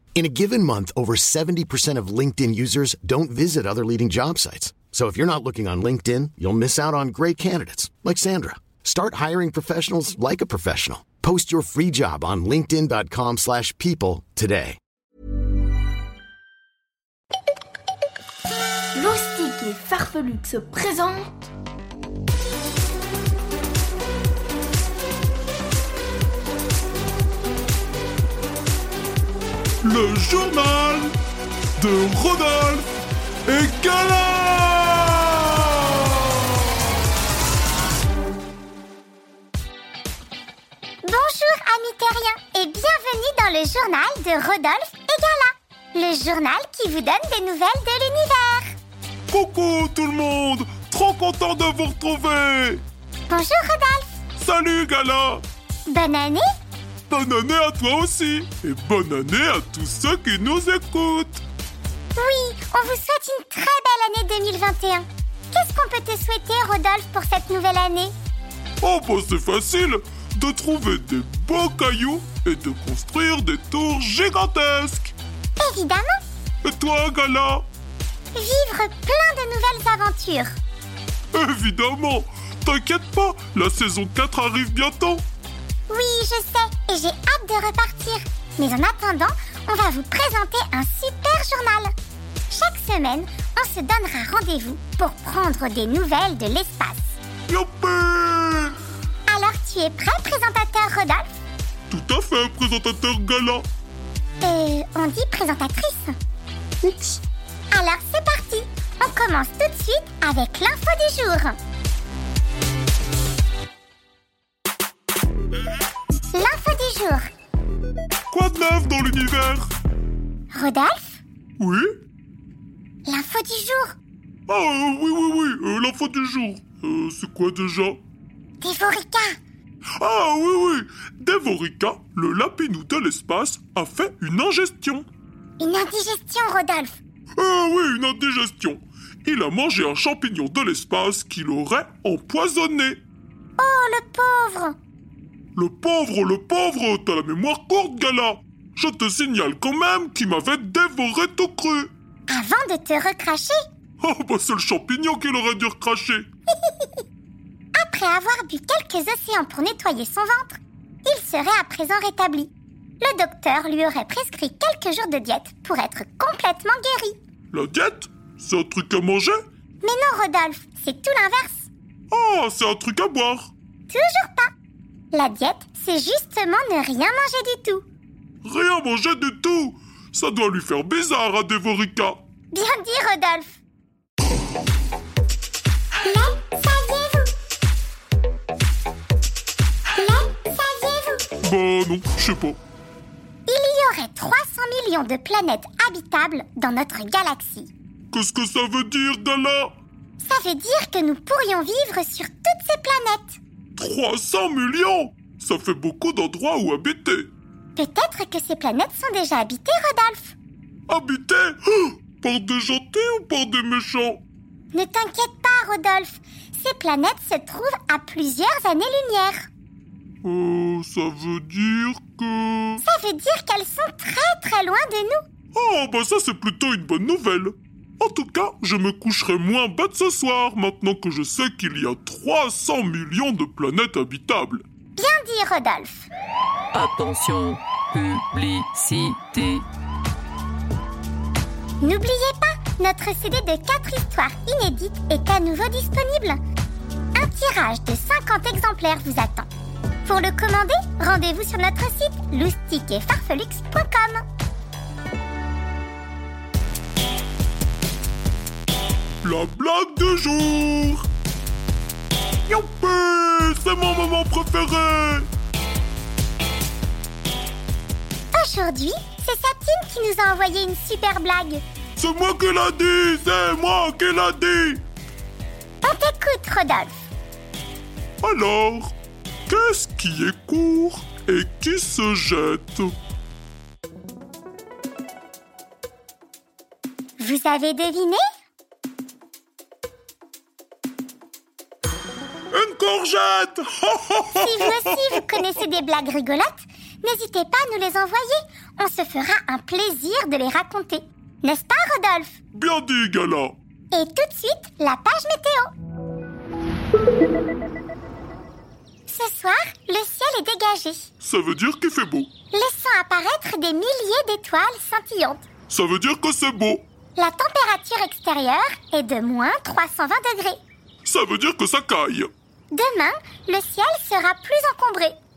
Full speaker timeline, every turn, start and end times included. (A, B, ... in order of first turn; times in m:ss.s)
0:00.2-0:14.8 A
0:18.9-0:21.3 B
0:29.8-0:31.1 C
0:31.8-0:32.8 C
0:33.4-0:36.4 C
0:41.0-0:48.7 D
0:49.3-0:52.8 C
0:53.3-0:54.2 D
0:54.4-0:55.4 C
0:55.9-0:56.5 D
0:57.1-1:01.4 C
1:02.1-1:08.1 D
1:08.8-1:15.1 C
1:15.6-1:16.3 D
1:16.6-1:17.6 C
1:18.3-1:20.5 D
1:21.3-1:25.2 C
1:25.9-1:31.9 D
1:32.5-1:37.1 D
1:37.5-1:38.8 C
1:39.3-1:41.3 D
1:41.9-1:43.6 C
1:44.4-1:46.2 D
1:46.8-1:47.2 B
1:47.7-1:51.6 D
1:56.3-1:57.3 D
1:58.3-1:59.6 C
2:00.5-2:01.2 D
2:01.6-2:01.9 C
2:03.0-2:04.0 D
2:04.5-2:08.0 C
2:08.6-2:09.4 D
2:10.0-2:15.0 C
2:15.6-2:17.0 D
2:17.4-2:23.0 C
2:23.6-2:24.8 D
2:25.6-2:31.9 C
2:32.3-2:33.6 D
2:34.0-2:36.2 C
2:37.7-2:47.2 D
2:47.5-2:49.4 C
2:49.8-2:51.7 D
2:52.1-2:53.5 C
2:53.9-2:54.5 D
2:55.1-2:57.8 D
2:58.4-3:02.2 C
3:02.5-3:03.6 D
3:06.0-3:07.3 D
3:09.9-3:11.3 D
3:11.4-3:12.6 C
3:13.5-3:17.7 D
3:18.1-3:19.7 C
3:20.2-3:23.4 D
3:23.8-3:27.3 C
3:27.8-3:30.4 D
3:30.9-3:34.2 C
3:34.7-3:39.5 D
3:40.2-3:42.8 C
3:42.8-3:45.2 D
3:45.5-3:54.6 C
3:55.0-3:56.1 D
3:56.7-3:59.6 E
4:01.8-4:06.4 D
4:07.2-4:09.5 D
4:10.0-4:14.2 D
4:19.2-4:21.0 C
4:22.5-4:25.3 C
4:28.3-4:31.6 D
4:32.0-4:34.8 C
4:35.8-4:37.0 D
4:38.2-4:38.9 C
4:39.5-4:42.9 C
4:47.2-4:48.2 D
4:52.5-4:55.5 C
4:54.4-5:02.4 D
5:02.5-5:03.5 C
5:03.9-5:05.7 D
5:09.1-5:11.1 D
5:11.2-5:12.3 C
5:12.5-5:15.4 D
5:15.7-5:16.8 C
5:17.2-5:20.6 D
5:21.0-5:22.3 C
5:22.7-5:25.2 D